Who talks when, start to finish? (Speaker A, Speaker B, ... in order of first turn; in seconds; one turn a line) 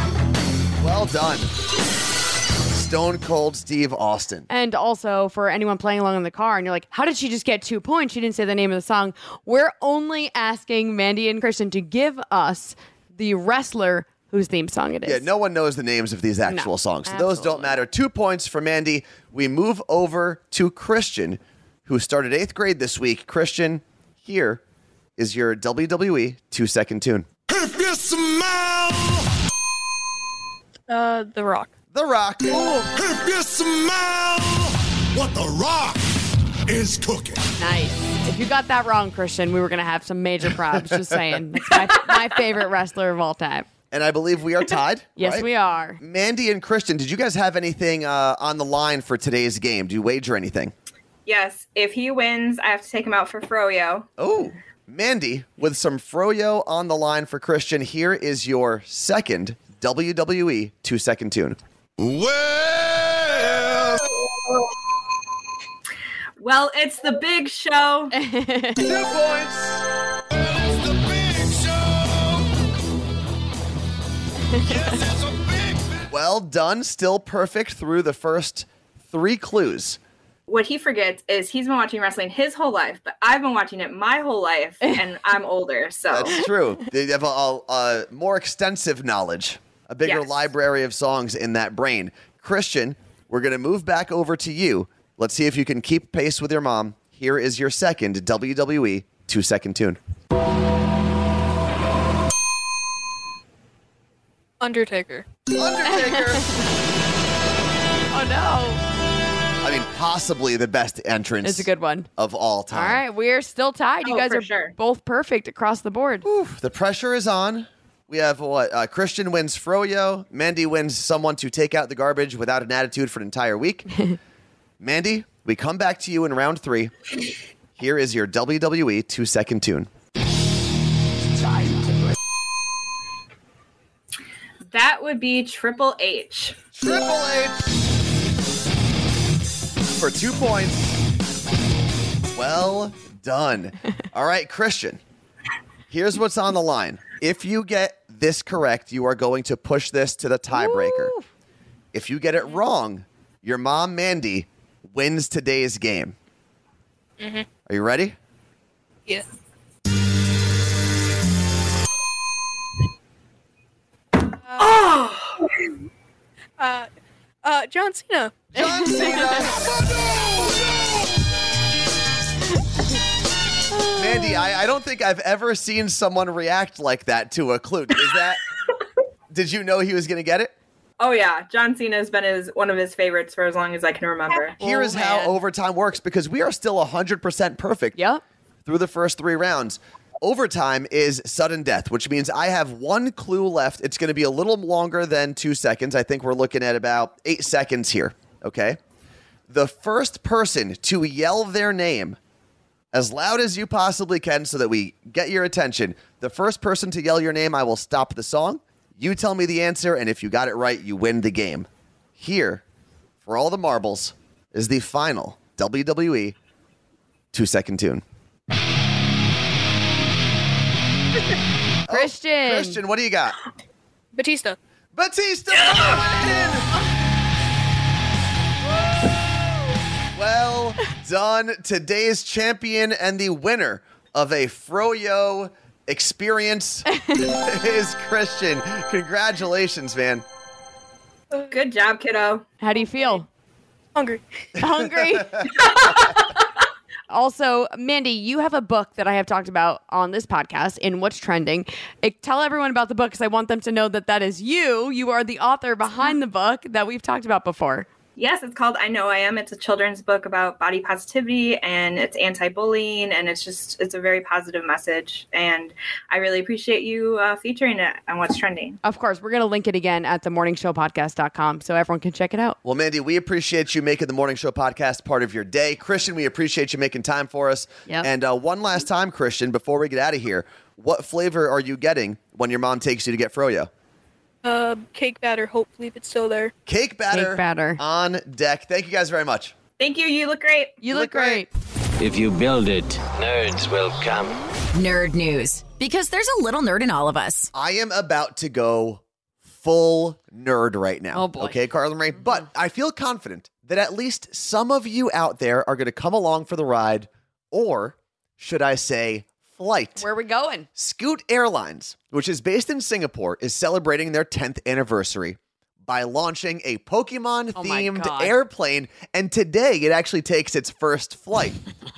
Speaker A: 0.8-1.5
Speaker A: 2.7-4.5
Speaker B: 4.5-15.3
Speaker A: 15.0-24.6
Speaker B: 16.5-17.8
Speaker A: 25.2-27.3
Speaker C: 27.5-29.3
Speaker D: 30.9-31.7
Speaker A: 31.9-32.9
Speaker C: 32.9-37.5
Speaker B: 37.6-43.7
Speaker A: 43.9-45.5
Speaker B: 45.2-46.0
Speaker A: 46.0-50.7
Speaker E: 51.3-54.1
Speaker A: 54.2-61.6
Speaker C: 62.0-63.9
Speaker E: 66.4-68.1
Speaker B: 68.1-68.9
Speaker A: 68.8-69.8
Speaker C: 70.4-72.3
Speaker B: 74.6-74.9
Speaker C: 74.7-76.0
Speaker A: 76.1-80.0
Speaker E: 80.5-86.5
Speaker A: 86.1-100.0
Speaker E: 90.1-90.3
Speaker D: 104.6-105.2
Speaker A: 105.5-106.5
Speaker B: 105.9-106.5
Speaker B: 108.1-108.8
Speaker A: 109.6-113.0
Speaker B: 111.4-112.1
Speaker B: 112.7-116.2
Speaker E: 114.0-114.7
Speaker A: 116.2-123.9
Speaker A: 124.8-126.9
Speaker A: 127.8-129.9
Speaker E: 134.7-136.6
Speaker A: 136.8-137.6
Speaker A: 140.0-141.0
Speaker A: 142.3-145.0
Speaker A: 145.9-151.1
Speaker B: 150.5-151.2
Speaker A: 151.9-156.1
Speaker D: 157.2-157.4
Speaker A: 157.7-158.2
Speaker D: 164.3-165.0
Speaker E: 164.6-165.5
Speaker D: 166.6-166.9
Speaker D: 167.4-168.4
Speaker A: 168.5-170.8
Speaker B: 168.6-169.4
Speaker B: 173.8-174.4
Speaker A: 173.9-178.4
Speaker A: 179.3-180.5
Speaker E: 181.0-184.6
Speaker B: 184.5-185.4
Speaker A: 184.6-188.0
Speaker B: 187.9-188.2
Speaker A: 188.7-198.8
Speaker A: 199.5-202.2
Speaker A: 202.9-211.7
Speaker A: 212.2-212.6
Speaker A: 213.2-216.3
Speaker A: 217.3-218.0
Speaker A: 221.9-223.4
Speaker B: 221.9-222.8
Speaker D: 224.1-224.6
Speaker A: 224.9-226.7
Speaker A: 230.2-240.2
Speaker D: 241.3-241.7
Speaker E: 241.5-242.5
Speaker B: 242.6-243.3
Speaker D: 242.7-243.2
Speaker D: 244.0-244.2
Speaker B: 244.6-246.0
Speaker B: 247.1-257.9
Speaker E: 258.2-268.8
Speaker B: 268.8-272.6
Speaker A: 272.6-283.7
Speaker D: 284.4-286.5
Speaker A: 286.7-289.5
Speaker B: 287.1-287.8
Speaker E: 289.8-290.8
Speaker B: 290.8-291.5
Speaker A: 290.9-291.5
Speaker F: 292.0-294.4
Speaker G: 294.7-297.5
Speaker A: 297.5-310.1
Speaker B: 301.1-301.6
Speaker B: 310.0-310.7
Speaker A: 310.8-321.6
Speaker B: 317.6-318.4